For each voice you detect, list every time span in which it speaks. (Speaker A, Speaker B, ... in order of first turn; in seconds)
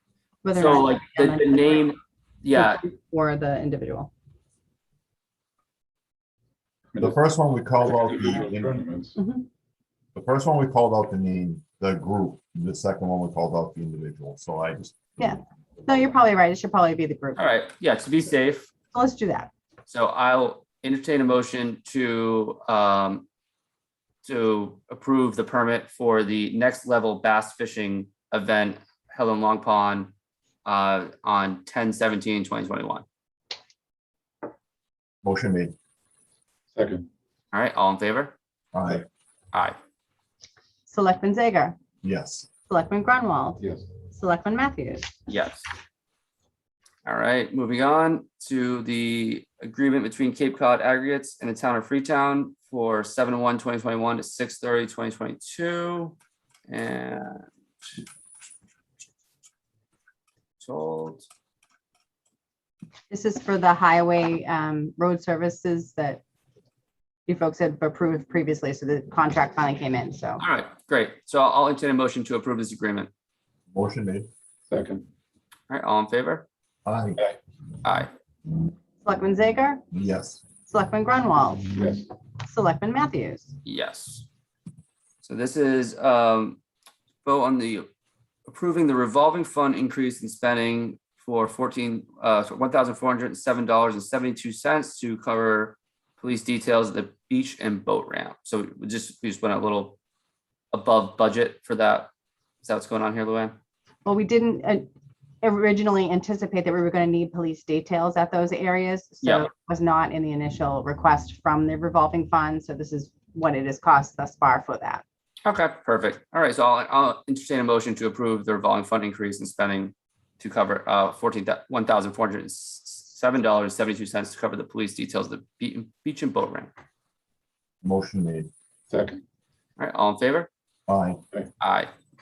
Speaker A: 0.4-1.9, 2.5-4.1, 9.2-9.5, 15.2-17.5, 18.9-19.5, 40.9-41.8, 42.7-45.1, 63.1-66.2, 67.3-70.4, 79.0-79.8, 80.7-81.7, 82.4-83.6, 104.0-104.9, 105.4-115.0
Speaker B: 0.5-2.8, 17.4-18.7, 19.9-23.2, 24.2-30.1, 30.6-33.0, 37.5-38.3, 45.3-45.7, 47.0-56.1, 56.7-58.0, 60.6-61.2, 70.4-73.1, 75.7-76.5, 77.8-78.1, 83.6-84.3, 85.2-86.6, 87.2-87.9, 88.5-100.0, 100.7-102.1, 102.6-103.6, 109.2-109.5, 115.4-126.7, 129.8-130.5, 131.6-131.9
Speaker C: 6.9-7.2, 7.8-9.2, 36.7-37.1, 43.6-43.9, 74.7-75.0, 81.7-82.0, 128.9-129.2
Speaker D: 7.0-8.8, 10.1-14.9, 35.2-35.7, 38.7-39.0, 42.0-42.5, 73.7-74.3, 76.8-77.2, 79.9-80.4, 127.8-128.5, 130.9-131.2